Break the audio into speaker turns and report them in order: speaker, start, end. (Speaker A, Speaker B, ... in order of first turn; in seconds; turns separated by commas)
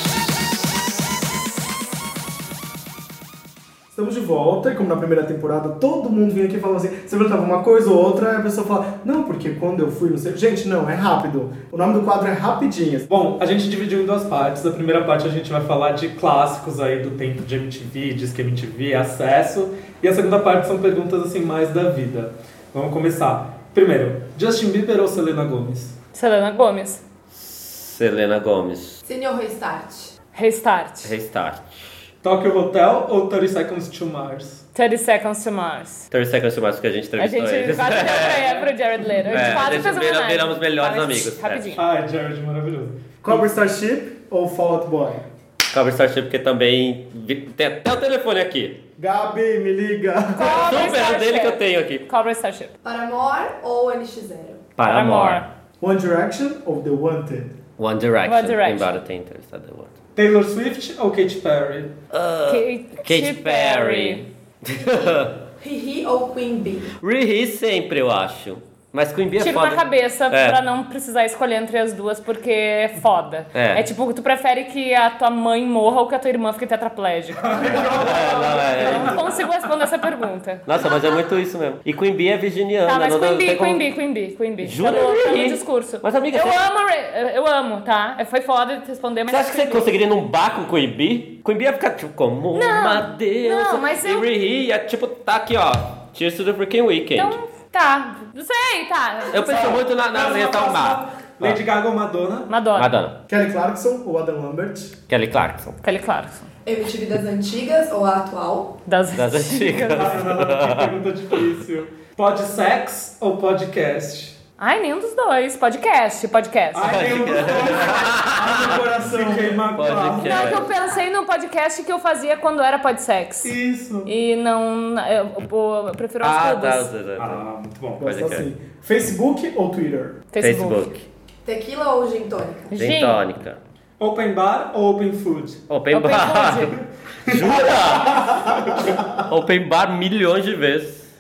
Speaker A: 3.9-13.1, Speaker B: 13.1-25.9, Speaker C: 26.1-27.0, Speaker D: 27.3-29.0, Speaker E: 29.0-30.1, Speaker C: 30.3-31.1, Speaker D: 31.0-32.0, Speaker B: 32.2-34.6, Speaker C: 34.7-36.0, Speaker D: 36.1-38.5, Speaker C: 37.2-41.8, Speaker B: 38.3-39.8, Speaker D: 39.3-41.7, Speaker B: 41.7-43.5, Speaker A: 43.2-45.3, Speaker D: 45.7-48.8, Speaker A: 49.0-50.7, Speaker C: 50.3-52.7, Speaker D: 50.4-52.0, Speaker E: 52.8-54.6, Speaker D: 54.8-55.4, Speaker C: 54.8-55.5, Speaker A: 55.8-57.6, Speaker D: 57.8-59.9, Speaker C: 58.2-58.9, Speaker B: 60.1-61.9, Speaker D: 62.1-65.4, Speaker C: 62.5-64.2, Speaker E: 65.6-66.9, Speaker D: 67.0-70.6, Speaker C: 69.4-78.1, Speaker D: 73.5-73.8, Speaker B: 77.4-79.4, Speaker D: 77.7-79.2, Speaker C: 78.7-81.0, Speaker D: 80.7-83.8, Speaker C: 82.8-89.9, Speaker D: 84.6-86.6, Speaker D: 89.3-97.4, Speaker C: 92.5-94.3, Speaker C: 97.2-99.8, Speaker D: 99.3-101.6, Speaker B: 100.1-102.5, Speaker C: 102.5-102.9, Speaker D: 102.8-103.2, Speaker A: 103.3-105.0, Speaker D: 105.1-105.8, Speaker C: 105.8-106.5, Speaker E: 106.6-108.8, Speaker C: 108.8-110.2, Speaker D: 109.1-110.9, Speaker B: 109.9-114.4, Speaker C: 114.6-117.0, Speaker B: 116.7-120.7, Speaker D: 116.8-118.8, Speaker A: 118.3-119.8, Speaker D: 119.7-120.7, Speaker C: 120.2-126.9, Speaker B: 123.4-124.1, Speaker D: 126.2-127.4, Speaker B: 127.2-128.1, Speaker A: 128.0-130.2, Speaker D: 128.0-128.5, Speaker C: 130.3-130.9, Speaker D: 130.4-131.0, Speaker E: 131.4-132.7, Speaker C: 132.7-133.2, Speaker D: 132.7-133.6, Speaker B: 134.0-135.6, Speaker D: 135.7-138.4, Speaker C: 135.9-136.8, Speaker B: 137.2-138.9, Speaker A: 138.3-139.1, Speaker D: 139.1-141.1